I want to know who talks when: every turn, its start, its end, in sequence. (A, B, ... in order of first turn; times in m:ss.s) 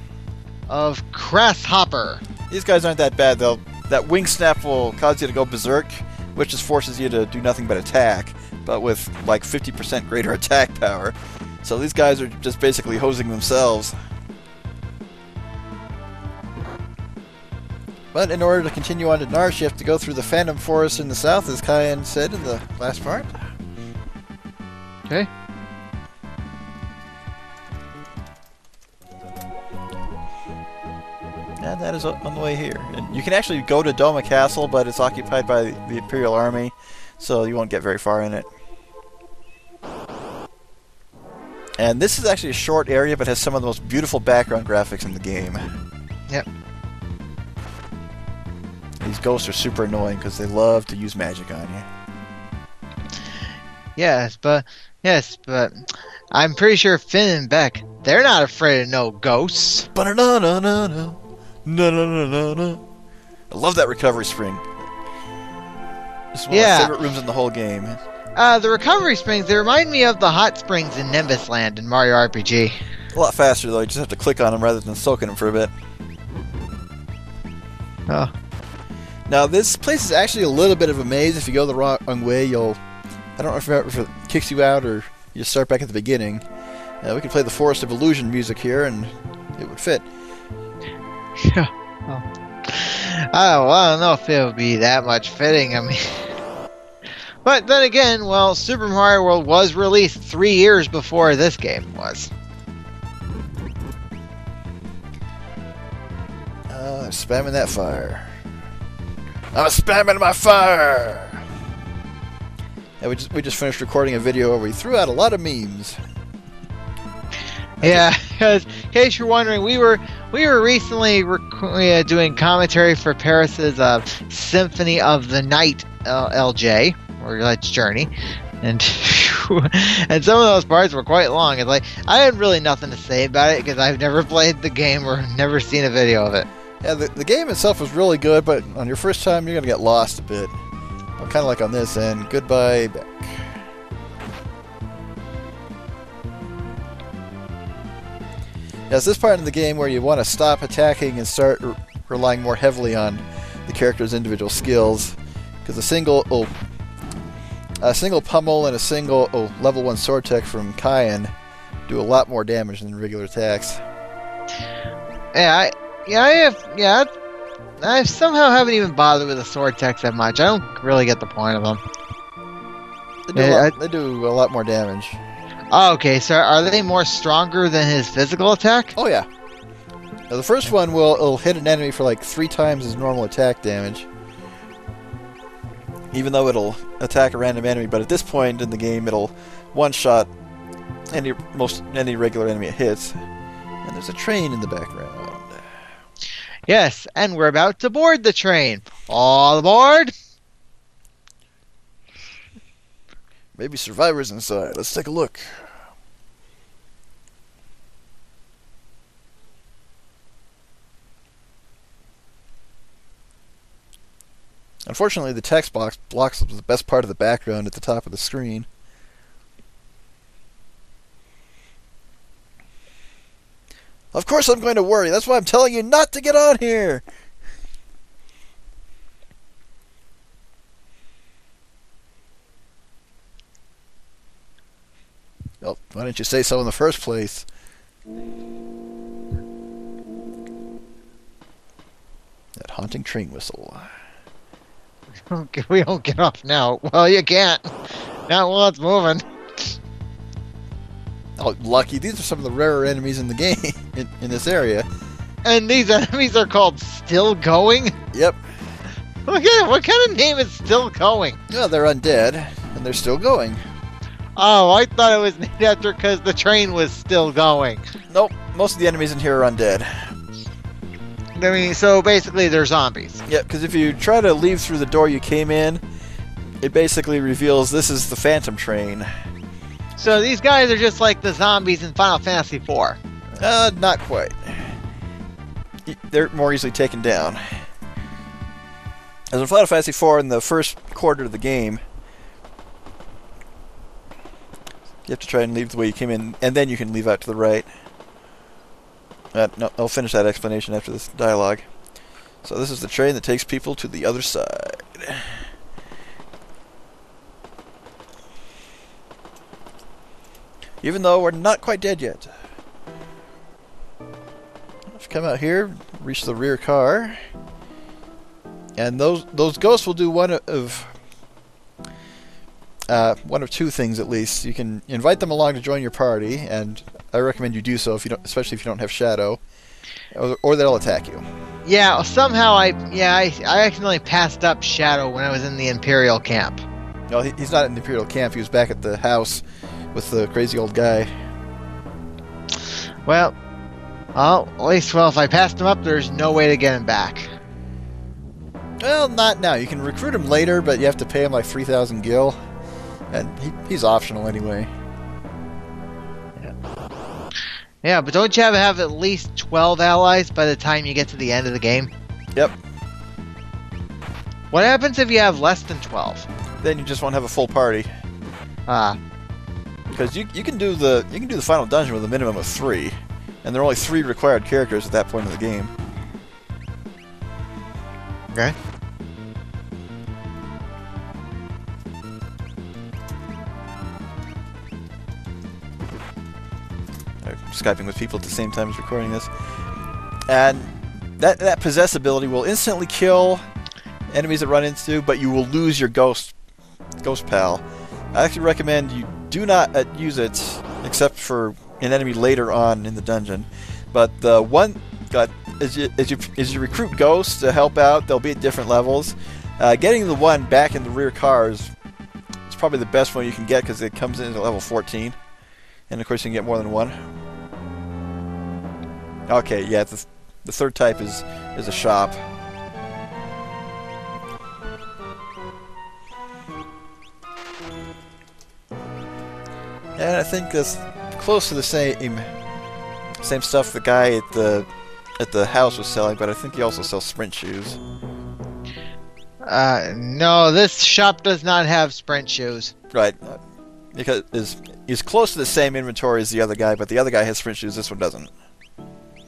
0:00.7-0:02.2 A
0:02.5-0:14.0 B
0:18.1-0:23.4 B
0:31.6-0:38.5 B
0:41.8-0:45.6 B
0:49.0-0:51.9 B
0:54.0-0:59.9 A
1:00.0-1:02.8 B
1:03.5-1:04.7 B
1:06.3-1:08.0 B
1:06.5-1:06.9 A
1:08.4-1:12.8 A
1:13.1-1:15.7 B
1:19.3-1:22.8 B
1:23.4-1:26.4 B
1:27.0-1:30.1 B
1:31.4-1:36.3 A
1:37.4-1:42.3 A
1:46.7-1:48.3 B
1:49.5-1:51.5 B
1:53.0-1:56.0 B
1:57.8-1:58.1 B
1:57.8-2:08.1 A
2:08.6-2:16.5 A
2:16.8-2:20.6 B
2:21.2-2:23.6 B
2:28.9-2:36.5 B
2:37.8-2:41.3 B
2:41.9-2:43.8 B
2:45.4-2:47.1 A
2:47.8-2:51.8 A
2:53.3-2:55.2 B
2:53.4-2:53.7 A
2:55.7-2:59.0 A
2:59.0-2:59.3 B
3:00.3-3:04.1 B
3:06.1-3:10.3 B
3:11.1-3:13.2 B
3:13.8-3:15.6 B
3:16.7-3:20.1 A
3:23.6-3:25.7 B
3:34.9-3:38.7 B
3:44.1-3:47.0 B
3:55.6-3:57.5 B
4:02.6-4:03.9 B
4:05.3-4:09.8 A
4:11.4-4:14.9 B
4:15.4-4:17.9 A
4:18.1-4:18.4 B
4:19.3-4:21.4 A
4:21.5-4:23.6 B
4:24.4-4:27.8 A
4:28.1-4:30.1 B
4:31.4-4:33.2 A
4:33.3-4:35.8 B
4:36.6-4:39.1 B
4:40.0-4:43.0 A
4:43.4-4:44.8 B
4:45.8-4:47.7 B
4:49.3-4:51.8 B
4:55.0-4:57.7 B
4:59.3-5:01.7 B
5:02.4-5:05.5 B
5:10.8-5:12.3 B
5:14.9-5:17.2 B
5:18.8-5:20.9 B
5:22.9-5:29.4 B
5:30.1-5:31.2 B
5:31.6-5:36.6 A
5:37.1-5:41.1 B
5:43.0-5:43.4 A
5:44.2-5:47.3 A
5:48.8-5:52.4 B
5:53.1-5:54.7 B
5:57.8-6:01.9 A
6:04.5-6:06.3 A
6:06.6-6:07.9 B
6:08.7-6:09.0 A
6:09.9-6:15.7 B
6:27.2-6:29.3 B
6:30.3-6:33.4 B
6:34.1-6:36.4 B
6:37.0-6:51.7 B
6:52.5-6:55.2 B
6:55.9-6:57.0 B
6:59.3-7:02.2 B
7:10.0-7:12.3 B
7:13.2-7:14.7 B
7:15.2-7:17.8 B
7:19.4-7:22.7 A
7:22.9-7:23.4 B
7:23.9-7:28.3 B